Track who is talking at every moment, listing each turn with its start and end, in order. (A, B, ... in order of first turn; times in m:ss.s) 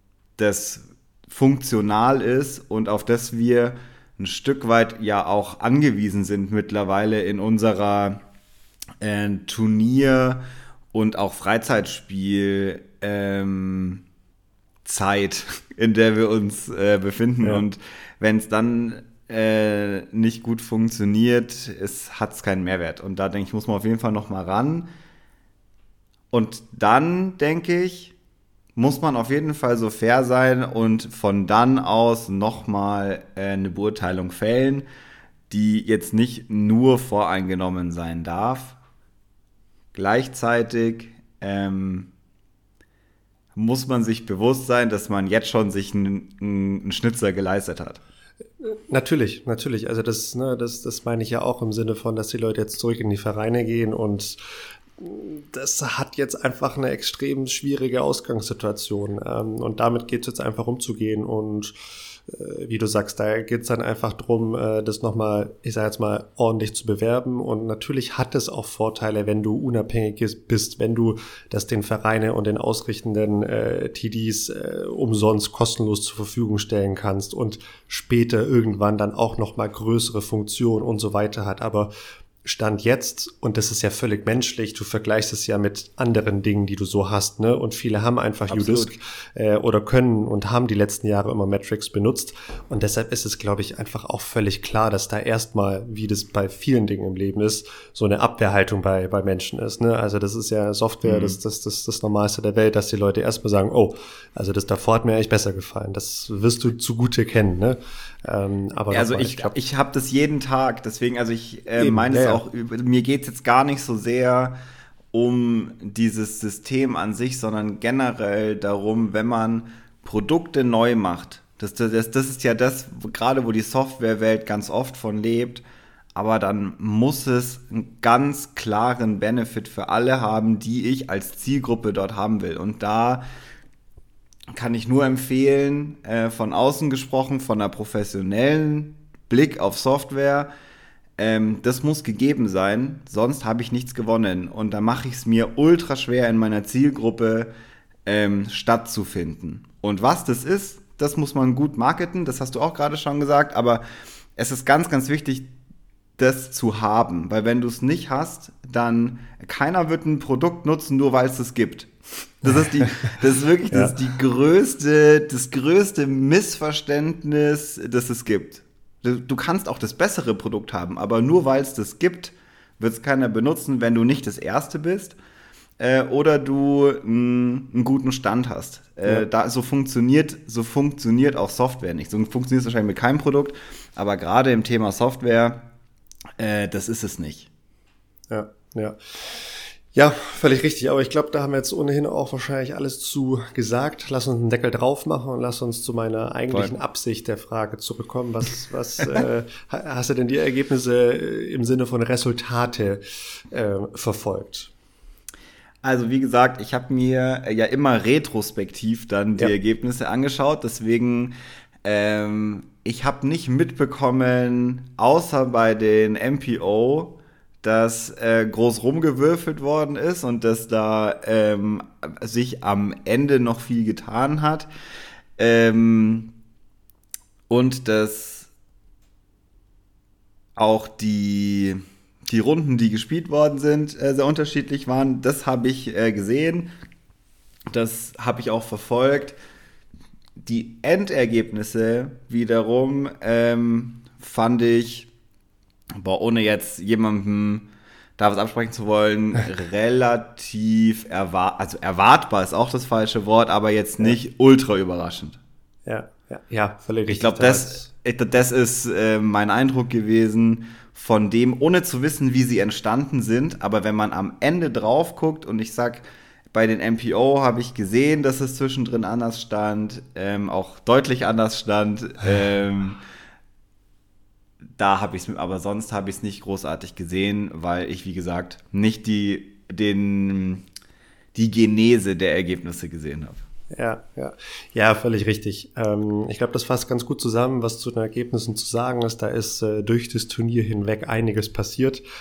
0:00.4-0:08.2 A
0:09.0-0:14.0 A
0:14.8-0:24.9 A
0:26.3-0:28.1 A
0:28.8-0:34.9 A
0:35.5-0:38.8 A
0:39.9-0:42.1 A
0:43.6-0:48.0 A
0:48.6-0:54.4 B
0:55.0-1:21.9 B
1:22.4-1:49.6 B
1:28.5-1:28.9 A
1:41.0-1:41.4 A
1:48.9-1:54.6 A
1:51.8-1:52.4 B
1:55.1-2:05.6 A
2:06.2-2:13.3 A
2:14.5-2:20.5 A
2:21.2-2:27.5 A
2:28.1-2:33.8 A
2:34.4-2:35.5 A
2:36.2-2:55.2 A
2:42.5-2:43.2 B
2:43.7-2:44.0 B
2:55.8-3:05.7 A
3:06.4-3:07.5 A
3:08.3-3:24.7 B
3:25.8-3:44.7 A
3:45.4-3:46.3 A
3:47.5-3:48.5 A
3:50.6-3:56.7 A
3:57.7-3:59.4 A
4:00.4-4:05.1 A
4:06.0-4:15.4 A
4:15.9-4:17.9 B
4:17.1-4:33.0 A
4:34.8-4:40.6 A
4:41.4-4:43.4 A
4:43.7-4:52.0 B